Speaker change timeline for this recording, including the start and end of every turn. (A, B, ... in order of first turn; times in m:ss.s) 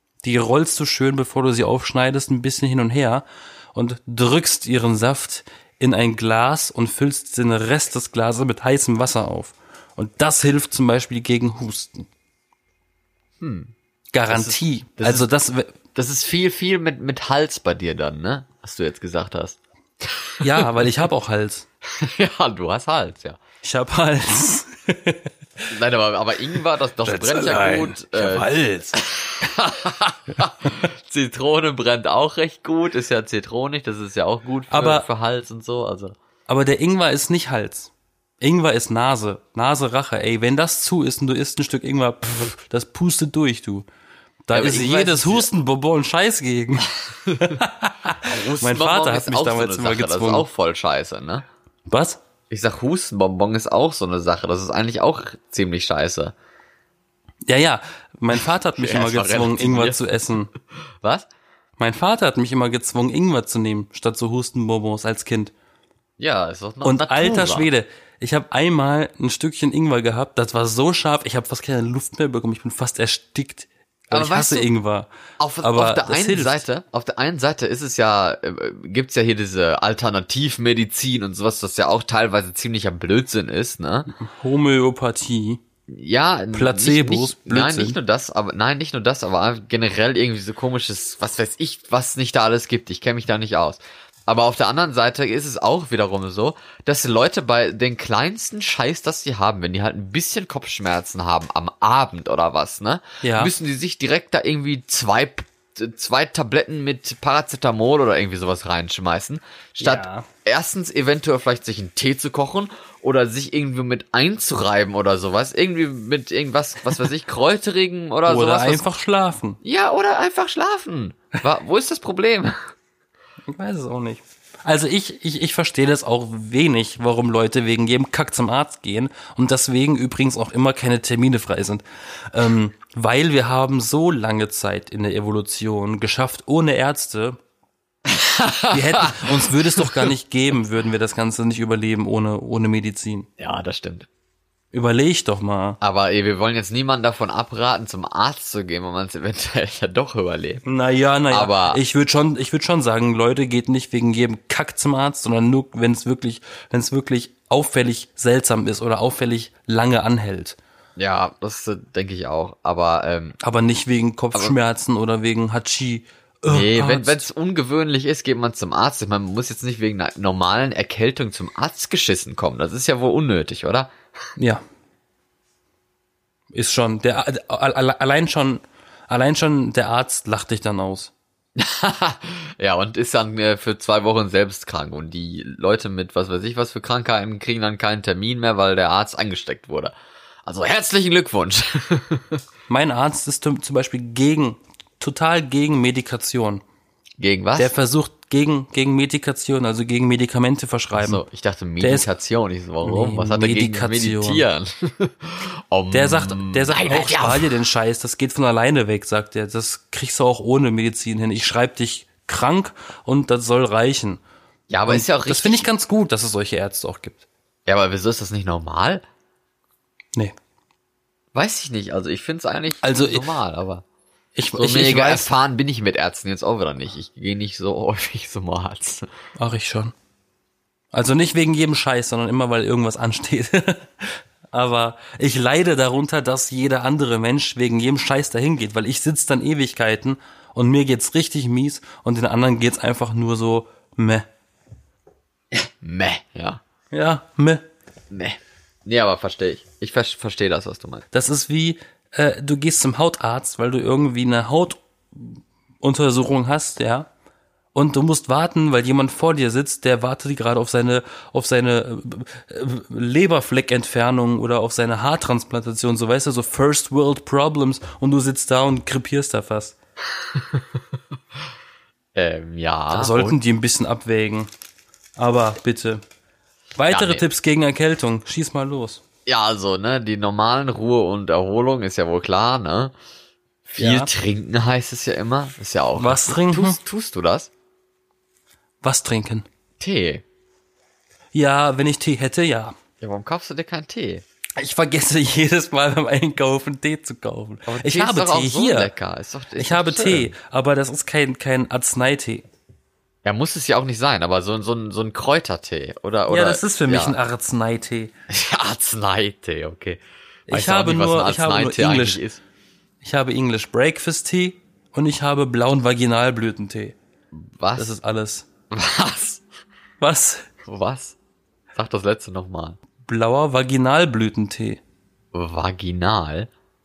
0:00.2-0:12.0 A
0:13.4-0:13.7 B
0:14.1-0:15.8 A
0:14.3-0:15.3 B
0:15.9-0:20.8 B
0:20.4-0:21.6 A
0:21.8-0:23.4 B
0:23.6-0:25.3 A
0:25.7-0:36.2 B
0:27.0-0:29.0 A
0:34.7-0:35.1 A
0:36.5-0:43.9 A
0:44.4-0:50.5 A
0:44.5-0:45.5 B
0:47.1-0:47.6 B
0:48.2-0:51.4 B
0:51.9-0:52.2 A
0:52.5-0:56.3 B
0:57.5-1:00.5 A
0:58.3-1:00.0 B
1:01.0-1:01.3 B
1:01.8-1:05.5 A
1:06.2-1:07.7 B
1:06.8-1:15.1 A
1:14.1-1:14.7 B
1:15.4-1:24.1 B
1:15.6-1:16.6 A
1:24.1-1:25.6 A
1:25.9-1:58.8 B
1:26.5-1:28.0 A
1:43.2-1:43.5 A
1:49.8-1:50.3 A
1:58.2-1:59.6 A
1:59.6-2:02.6 B
2:03.5-2:17.4 A
2:18.1-2:20.0 B
2:18.7-2:23.3 A
2:23.4-2:24.1 B
2:24.7-2:25.8 A
2:25.8-2:30.6 B
2:30.6-2:40.6 A
2:31.3-2:31.8 B
2:41.0-2:43.4 B
2:43.4-2:47.2 A
2:46.5-2:53.9 B
2:54.4-2:54.6 A
2:56.5-3:01.1 A
3:01.6-3:09.9 B
3:10.4-3:12.4 B
3:12.7-3:16.6 A
3:17.2-3:17.7 B
3:17.6-3:21.2 A
3:20.9-3:27.5 B
3:21.8-3:22.1 A
3:22.8-3:24.4 A
3:25.9-3:34.2 A
3:34.7-3:35.7 B
3:34.9-3:37.2 A
3:37.6-3:39.0 B
3:41.3-3:43.8 B
3:42.8-3:43.3 A
3:44.4-3:45.3 A
3:44.6-3:49.1 B
3:49.4-3:49.9 A
3:50.9-4:04.2 A
4:05.5-4:06.6 B
4:06.9-4:07.6 A
4:08.1-4:11.0 B
4:11.1-4:17.1 A
4:17.7-4:29.8 A
4:30.3-4:30.6 B
4:32.1-4:33.4 B
4:32.9-4:34.5 A
4:35.2-4:36.0 A
4:36.8-4:39.0 A
4:36.9-4:37.2 B
4:39.2-4:42.9 B
4:43.6-4:47.5 B
4:43.8-4:44.1 A
4:46.0-4:46.8 A
4:48.8-4:49.4 A
4:49.8-4:50.2 B
4:51.3-4:52.7 A
4:53.0-4:54.2 B
4:54.6-4:58.9 A
4:57.7-5:00.3 B
4:59.6-5:02.4 A
5:03.2-5:07.2 B
5:06.3-5:08.1 A
5:08.3-5:12.4 B
5:10.5-5:12.2 A
5:13.0-5:17.0 A
5:17.3-5:17.9 B
5:17.8-5:18.4 A
5:18.7-5:19.4 B
5:20.0-5:20.5 A
5:20.6-5:21.2 B
5:21.7-5:22.8 B
5:23.0-5:24.8 A
5:25.3-5:26.5 B